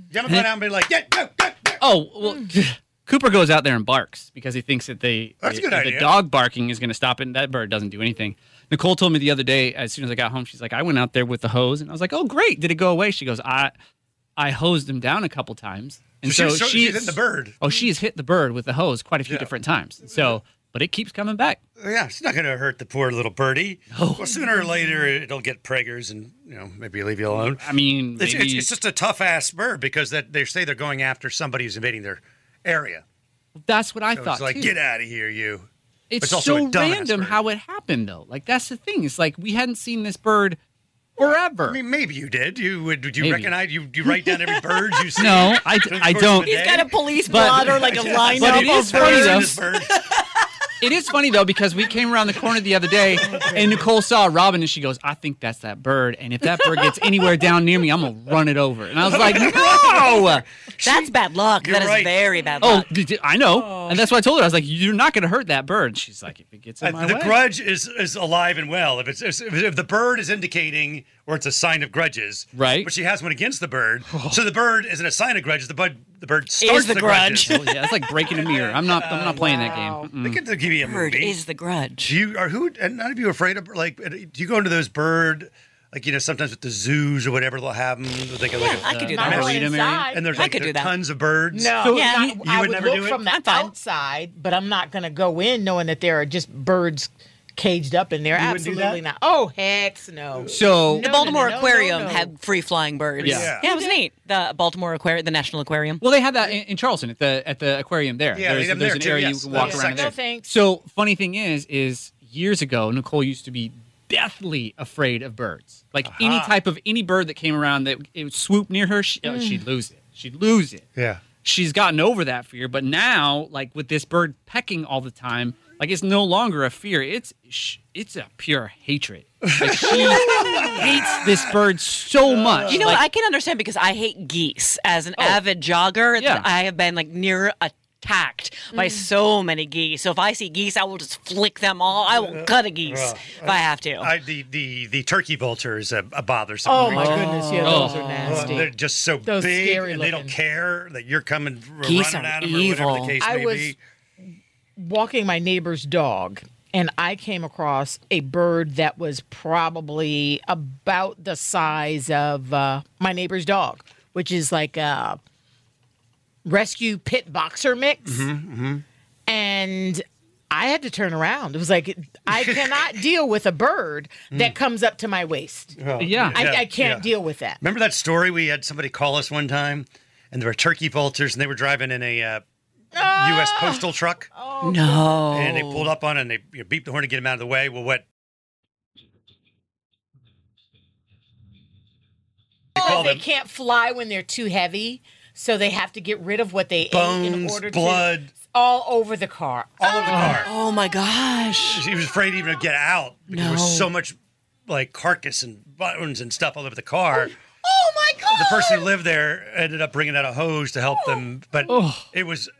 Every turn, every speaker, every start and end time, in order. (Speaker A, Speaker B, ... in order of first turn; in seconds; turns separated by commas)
Speaker A: 0.1-1.8, Speaker B: 1.8-13.7, Speaker A: 5.4-6.2, Speaker B: 14.4-21.6, Speaker A: 16.2-17.6, Speaker A: 19.3-19.5, Speaker A: 21.8-33.0, Speaker B: 23.9-24.3, Speaker B: 27.3-28.7, Speaker B: 33.6-34.8, Speaker A: 34.1-35.7, Speaker B: 36.1-40.6, Speaker A: 36.2-37.4, Speaker B: 41.2-41.8, Speaker A: 41.7-49.9, Speaker B: 43.2-43.5, Speaker C: 44.2-44.8, Speaker B: 45.2-46.6, Speaker C: 46.4-50.3, Speaker B: 47.3-47.9, Speaker B: 48.4-49.6, Speaker B: 50.8-60.5, Speaker A: 53.2-53.8, Speaker D: 53.4-53.8, Speaker C: 56.5-57.1, Speaker A: 59.0-62.2, Speaker C: 60.8-62.9, Speaker B: 62.6-67.4, Speaker D: 63.5-63.9, Speaker A: 66.8-77.6, Speaker B: 72.5-72.9, Speaker B: 74.1-74.4, Speaker C: 76.6-77.6, Speaker B: 77.4-80.4, Speaker D: 78.3-80.1, Speaker A: 78.3-81.4, Speaker C: 80.8-82.2, Speaker A: 82.0-91.8, Speaker C: 88.6-89.5, Speaker B: 88.8-90.1, Speaker D: 89.1-90.4, Speaker C: 90.3-90.9, Speaker D: 91.5-102.3, Speaker B: 91.8-92.2, Speaker C: 91.9-92.5, Speaker A: 92.4-93.2, Speaker C: 93.2-93.7, Speaker A: 98.3-99.0, Speaker B: 100.5-101.1, Speaker C: 101.0-106.0, Speaker B: 103.2-103.5, Speaker A: 103.2-103.7, Speaker D: 103.6-104.0, Speaker B: 106.0-120.9, Speaker A: 108.3-110.1, Speaker D: 109.5-110.5, Speaker A: 116.1-116.5, Speaker D: 119.2-119.6, Speaker A: 121.0-121.2, Speaker B: 121.4-133.0, Speaker A: 129.5-131.5, Speaker A: 132.2-132.9, Speaker C: 132.7-144.1, Speaker B: 136.2-136.5, Speaker D: 138.7-139.1, Speaker A: 142.2-147.4, Speaker D: 146.7-148.7, Speaker C: 146.9-148.7, Speaker B: 147.6-148.6, Speaker A: 148.2-153.8, Speaker D: 149.2-150.3, Speaker C: 151.8-153.2, Speaker D: 153.2-153.8, Speaker D: 154.8-165.2, Speaker D: 166.4-168.3, Speaker A: 168.1-168.8, Speaker D: 169.3-177.6, Speaker A: 172.3-172.9, Speaker A: 175.8-177.1, Speaker B: 176.0-176.5, Speaker A: 177.6-182.4, Speaker D: 182.9-185.3, Speaker A: 182.9-184.3, Speaker C: 184.6-185.9, Speaker A: 185.3-188.1, Speaker A: 192.8-193.2, Speaker D: 192.8-200.2, Speaker A: 196.8-198.3, Speaker A: 199.8-200.5, Speaker B: 200.1-200.4, Speaker C: 200.2-201.8, Speaker A: 201.6-207.3, Speaker C: 203.3-203.9, Speaker C: 207.2-208.9, Speaker A: 208.3-212.5, Speaker B: 211.7-212.1